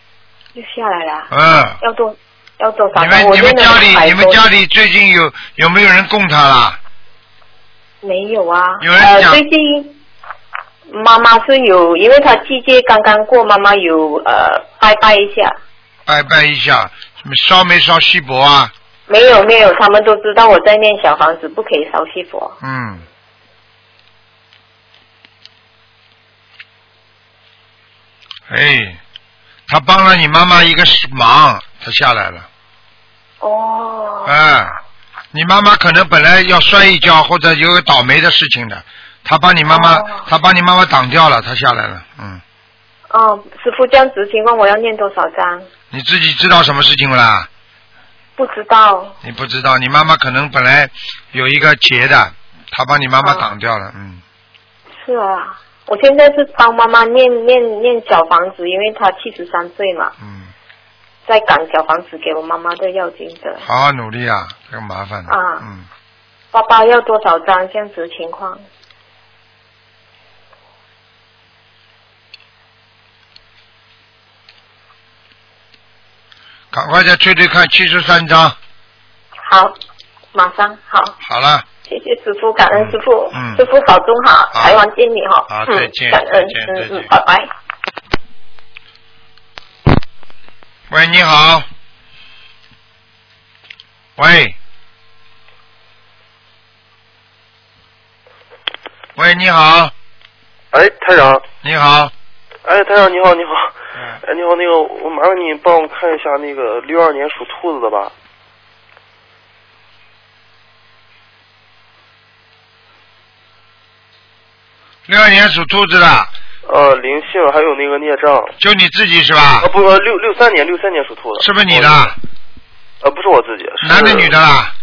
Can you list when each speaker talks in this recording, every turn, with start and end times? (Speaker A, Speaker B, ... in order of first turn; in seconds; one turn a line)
Speaker A: 0.5-4.4
Speaker B: 1.3-1.8
Speaker B: 2.9-6.8
Speaker A: 8.0-9.9
Speaker B: 8.8-9.4
Speaker A: 10.9-15.6
Speaker B: 16.1-18.7
Speaker A: 19.1-22.6
Speaker B: 22.6-23.0
Speaker B: 28.5-29.0
Speaker B: 29.7-32.5
Speaker A: 33.4-34.3
Speaker B: 34.2-34.8
Speaker B: 35.3-42.4
Speaker A: 39.7-40.3
Speaker A: 43.1-45.7
Speaker B: 45.9-47.5
Speaker A: 48.4-49.1
Speaker B: 49.2-54.2
Speaker A: 53.2-53.5
Speaker A: 55.0-60.1
Speaker B: 60.2-60.5
Speaker A: 61.2-63.6
Speaker B: 63.6-65.8
Speaker A: 65.3-65.6
Speaker A: 66.5-68.6
Speaker B: 76.7-78.5
Speaker A: 79.4-79.7
Speaker A: 80.3-81.2
Speaker B: 81.2-81.6
Speaker A: 81.8-87.5
Speaker B: 82.7-83.6
Speaker B: 84.5-84.8
Speaker B: 85.5-87.1
Speaker B: 90.9-91.7
Speaker B: 94.2-94.5
Speaker B: 99.2-99.9
Speaker C: 100.7-101.4
Speaker B: 101.6-102.1
Speaker C: 102.6-108.1
Speaker B: 115.1-116.3
Speaker C: 116.7-118.5
Speaker B: 118.6-119.7
Speaker C: 119.6-122.1
Speaker B: 121.4-122.2
Speaker C: 123.0-124.3
Speaker B: 123.8-124.7